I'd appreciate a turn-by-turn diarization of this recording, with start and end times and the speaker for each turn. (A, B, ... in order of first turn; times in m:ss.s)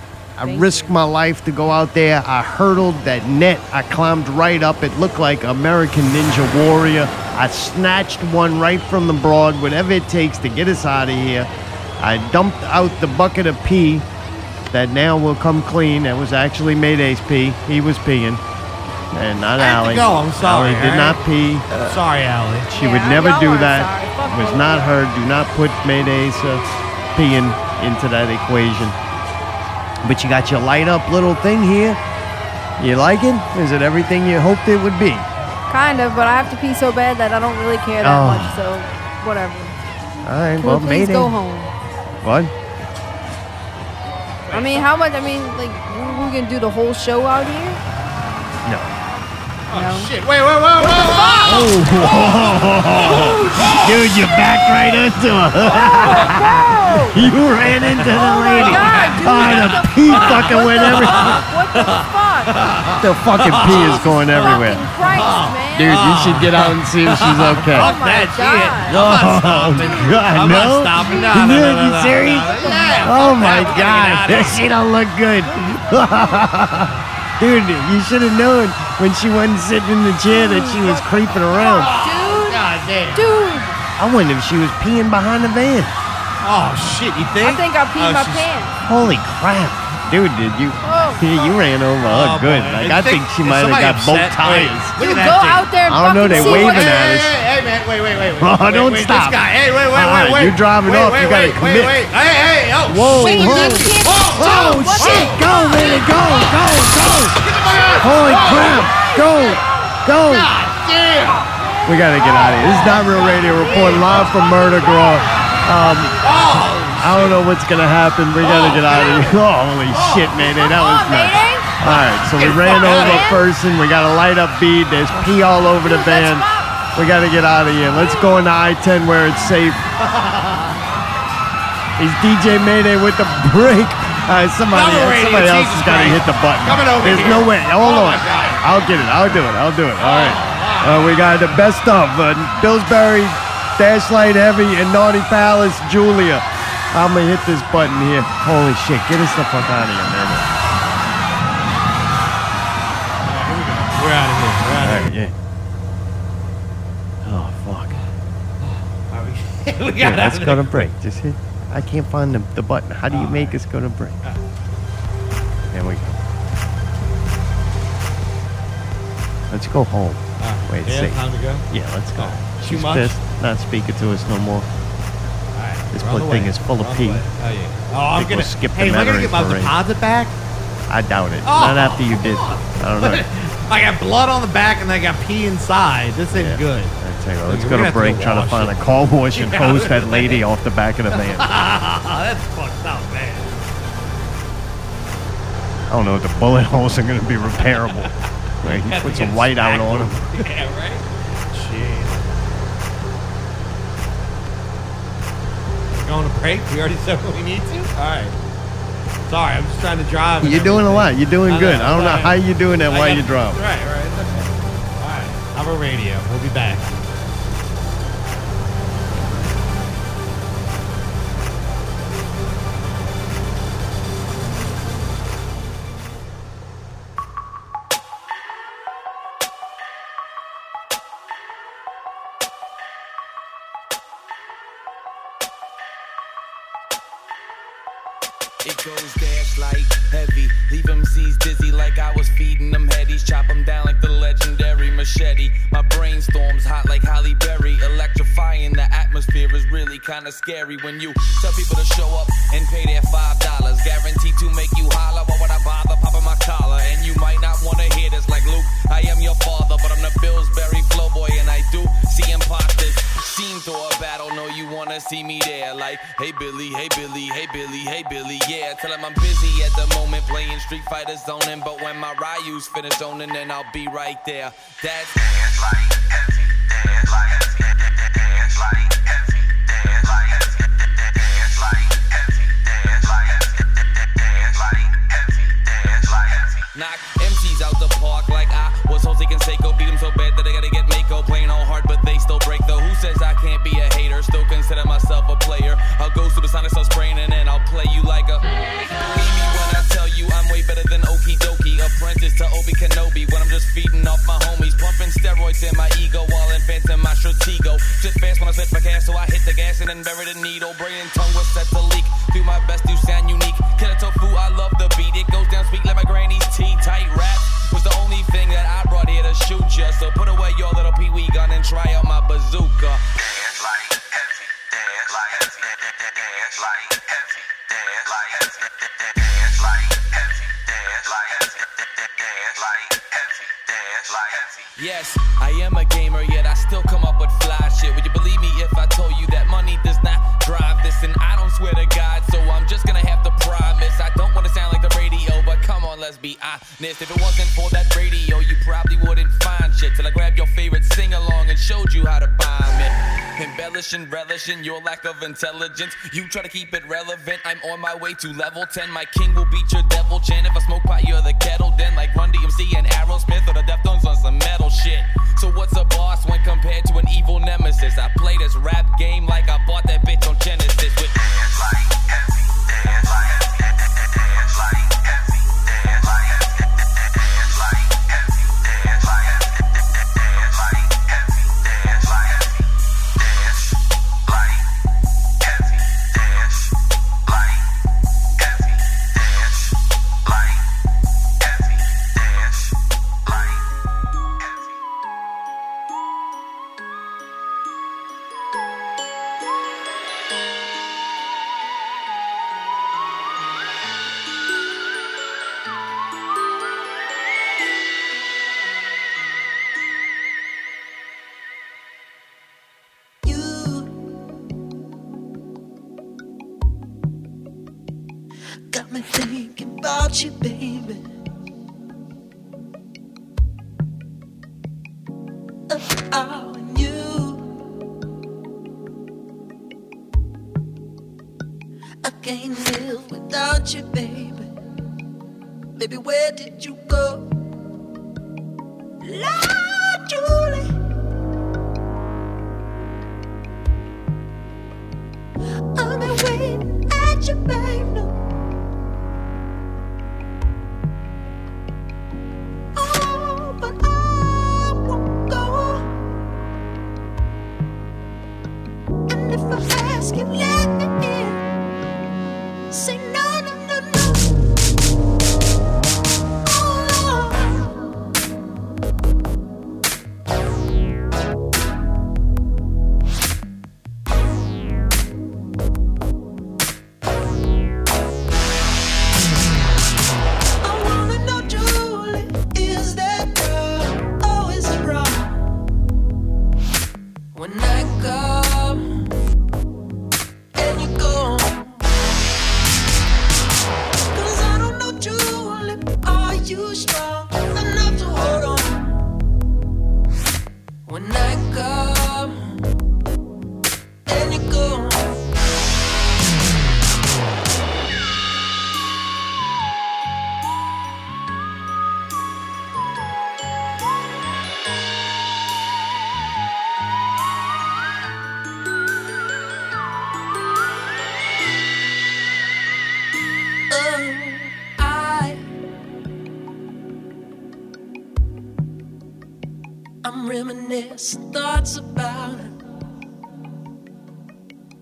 0:00.4-0:14.1 A
0:00.4-0:01.0 B
0:14.7-0:18.4 A
0:19.1-0:22.0 A
0:19.6-0:21.2 C
0:21.7-0:22.7 C
0:22.7-0:25.0 B
0:22.7-0:26.6 A
0:27.2-0:29.0 A
0:30.0-0:32.0 A
0:32.8-0:35.3 A
0:35.7-0:39.8 B
0:38.0-0:38.6 A
0:40.2-0:41.4 A
0:40.6-0:41.7 B
0:42.2-0:42.5 A
0:44.5-0:47.8 B
0:44.5-0:44.8 C
0:48.6-0:49.0 A
0:49.7-0:50.1 B
0:49.7-0:54.1 C
0:50.9-0:52.5 B
0:51.4-1:01.4 A
0:53.0-0:53.9 B
0:55.7-0:57.3 B
0:56.0-0:56.3 C
0:57.7-1:14.7 C
0:58.1-1:02.6 B
1:03.0-1:04.9 A
1:03.5-1:06.5 B
1:05.7-1:07.9 A
1:07.7-1:09.0 B
1:08.9-1:21.9 A
1:09.8-1:10.2 B
1:11.0-1:11.4 B
1:12.5-1:14.5 B
1:20.3-1:23.8 B
1:21.6-1:23.4 C
1:24.0-1:26.0 A
1:26.4-1:28.6 C
1:27.4-1:28.8 B
1:28.8-1:35.0 A
1:30.8-1:31.6 B
1:32.0-1:46.0 C
1:35.0-1:37.2 B
1:35.8-1:37.3 A
1:38.4-1:39.4 A
1:39.9-1:42.0 A
1:42.9-1:47.4 A
1:43.1-1:46.5 B
1:47.2-1:49.1 C
1:48.0-1:50.5 A
1:50.2-1:51.5 C
1:51.8-1:56.3 A
1:52.3-1:54.5 C
1:53.5-1:56.4 B
1:56.2-1:57.5 C
1:57.0-2:09.8 A
1:58.4-2:00.4 C
2:00.4-2:01.8 B
2:01.8-2:03.4 C
2:02.4-2:03.5 B
2:05.2-2:06.8 B
2:07.9-2:08.4 B
2:10.0-2:10.8 C
2:12.0-2:30.5 A
2:14.7-2:18.8 C
2:20.0-2:21.6 C
2:33.2-2:35.2 C
2:34.8-2:35.3 A
2:37.2-2:38.0 A
2:38.6-2:40.9 C
2:40.0-2:44.2 A
2:43.1-2:43.6 C
2:45.7-2:46.2 A
2:49.5-2:54.7 A
2:50.4-2:53.2 C
2:55.5-3:00.4 C
2:55.9-2:57.2 A
2:58.1-2:59.8 A
3:00.9-3:03.3 A
3:01.4-3:07.0 C
3:06.3-3:11.5 A
3:07.5-3:10.4 C
3:11.1-3:13.6 C
3:15.9-3:20.4 A
3:17.7-3:22.3 C
3:25.9-3:28.4 C
3:29.3-3:36.9 C
3:30.4-3:33.6 A
3:58.6-4:35.9 D
4:44.6-4:45.0 D
4:46.6-5:23.9 D
5:25.2-5:25.5 D
5:26.4-5:27.0 D
5:28.0-5:28.5 D
5:30.9-5:31.4 D
5:32.4-6:11.5 D
6:53.2-6:53.9 E
6:58.7-7:01.0 E
7:05.7-7:07.5 E
7:12.0-7:14.5 E
7:15.8-7:17.4 E
7:19.0-7:20.8 E
7:25.8-7:28.2 E
7:32.8-7:35.9 E
7:39.1-7:41.4 E
7:42.7-7:44.4 E
7:46.5-7:47.9 E
8:00.6-8:05.4 E
8:07.3-8:09.1 E
8:10.6-8:11.9 E
8:14.1-8:19.1 E
8:20.9-8:22.5 E
8:24.1-8:25.3 E
8:43.7-8:45.4 E
8:50.0-8:52.5 E